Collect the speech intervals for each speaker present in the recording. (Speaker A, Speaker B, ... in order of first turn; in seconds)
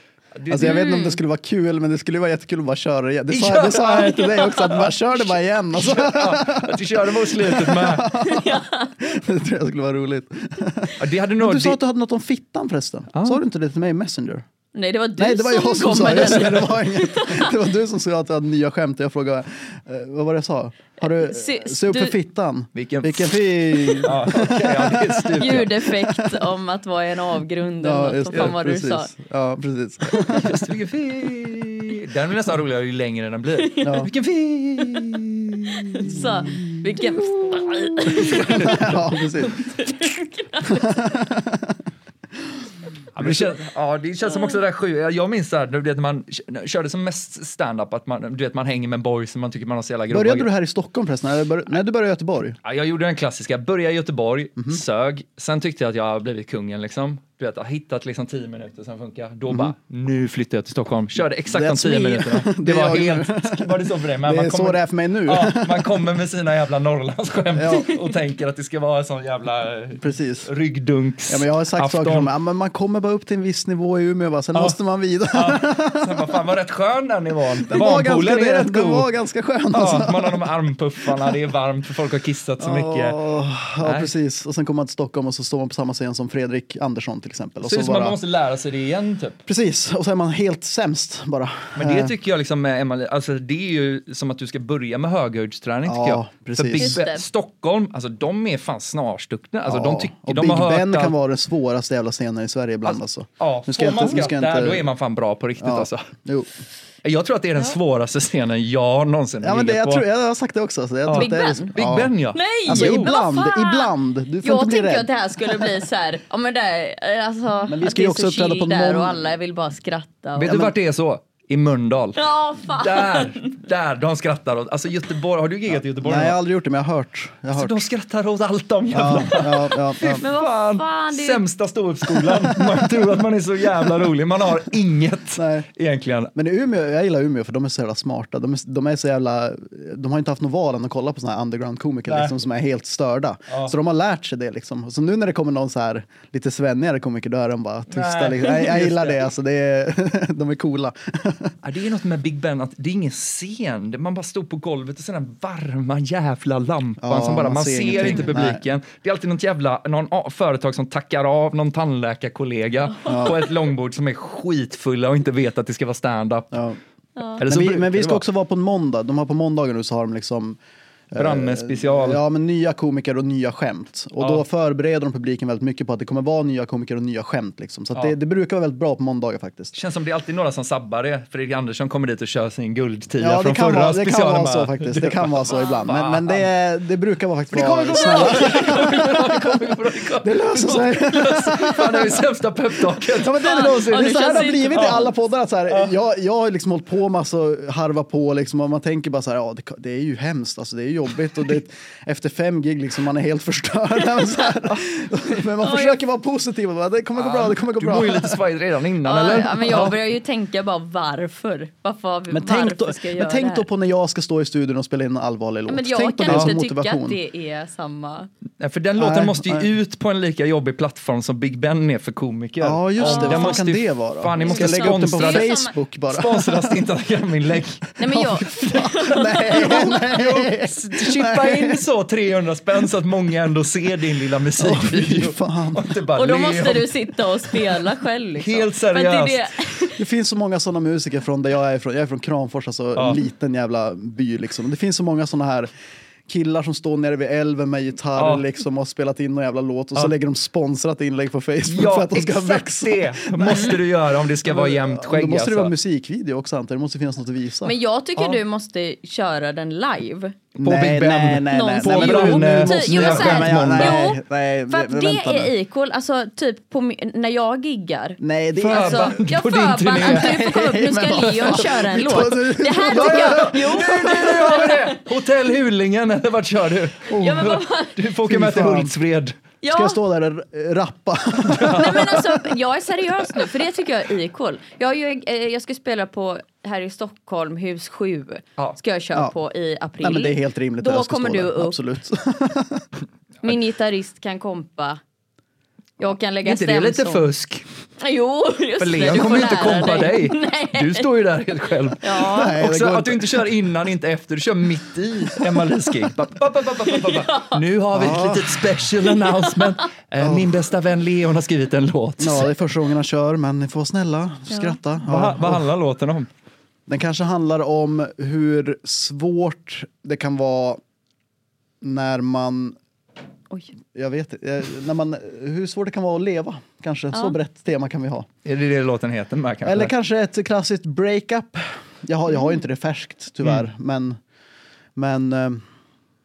Speaker A: 0.3-0.9, 3.3-4.9, 5.7-8.1, 11.0-11.8, 13.1-13.4, 22.7-25.7, 30.2-36.2, 38.0-39.0, 43.1-50.5, 52.6-72.3, 75.3-79.1, 79.7-83.2, 83.8-84.1, 87.6-89.4, 91.7-101.1, 102.8-106.1, 107.0-110.0, 111.1-113.1, 120.4-126.4, 127.5-136.3, 142.1-142.3, 143.5-143.7, 147.9-149.2, 151.6-166.6, 167.4-168.2, 171.1-172.2, 174.2-174.4, 179.7-186.4, 187.5-193.8, 194.7-195.1, 207.2-210.0, 218.6-225.5, 226.1-227.8, 228.4-236.9, 238.4-239.5, 242.9-243.2, 248.2-248.4, 251.7-255.7, 260.6-264.0, 268.6-270.5, 272.9-279.4, 281.4-282.1, 296.4-297.6, 298.8-312.5, 315.0-316.3, 328.4-329.9
Speaker B: 0.5-14.4, 15.2-26.4, 27.8-30.6, 33.8-34.1, 36.0-36.7, 38.2-39.6, 40.6-41.8, 43.2-43.5, 50.1-52.6, 61.5-66.0, 67.5-68.0, 70.0-70.5, 71.3-76.2, 77.7-80.5, 81.1-81.3, 82.6-88.2, 89.5-92.1, 95.8-97.0, 99.7-104.8, 105.6-106.5, 109.4-112.1, 112.7-115.7, 117.7-119.3, 126.0-127.8, 128.9-130.2, 132.2-132.9, 135.4-135.7, 136.3-151.5, 157.0-158.6, 163.1-163.3, 166.5-166.8, 167.4-170.6, 171.1-179.7, 183.2-189.6, 190.2-192.2, 193.1-208.4, 212.3-217.2, 219.0-219.7, 222.6-226.8, 228.0-231.8, 234.6-235.9, 240.0-245.7, 246.3-253.8, 254.3-257.7, 260.5-265.5, 268.2-269.1, 270.0-274.2, 277.1-277.5, 278.2-278.9, 279.7-282.4, 290.0-292.9, 302.2-303.4, 307.9-308.9, 310.2-310.5, 312.2-315.7, 316.9-320.8, 321.8-322.8, 323.9-328.3, 329.6-334.2, 334.9-335.6
Speaker C: 0.6-1.2, 4.2-4.9, 8.2-8.9, 14.7-17.5, 21.0-22.1, 25.4-29.1, 33.6-34.1, 35.8-41.0, 44.3-44.6, 96.8-97.2, 111.1-111.7, 112.3-113.9, 114.4-120.7, 122.2-123.5, 130.0-131.4, 157.9-158.3, 163.0-163.3, 167.2-167.4, 185.5-185.9, 187.9-189.1, 193.2-195.0, 205.6-206.0, 209.0-213.7, 215.7-218.3, 223.0-223.6, 224.3-225.7, 228.0-230.1, 236.2-239.9, 253.5-253.8, 257.6-260.4, 261.5-275.0, 277.1-278.0, 279.6-280.0, 281.6-291.8, 293.4-295.0, 296.0-297.2, 298.0-301.1, 302.0-302.6, 306.8-307.6, 309.2-309.7, 314.5-314.8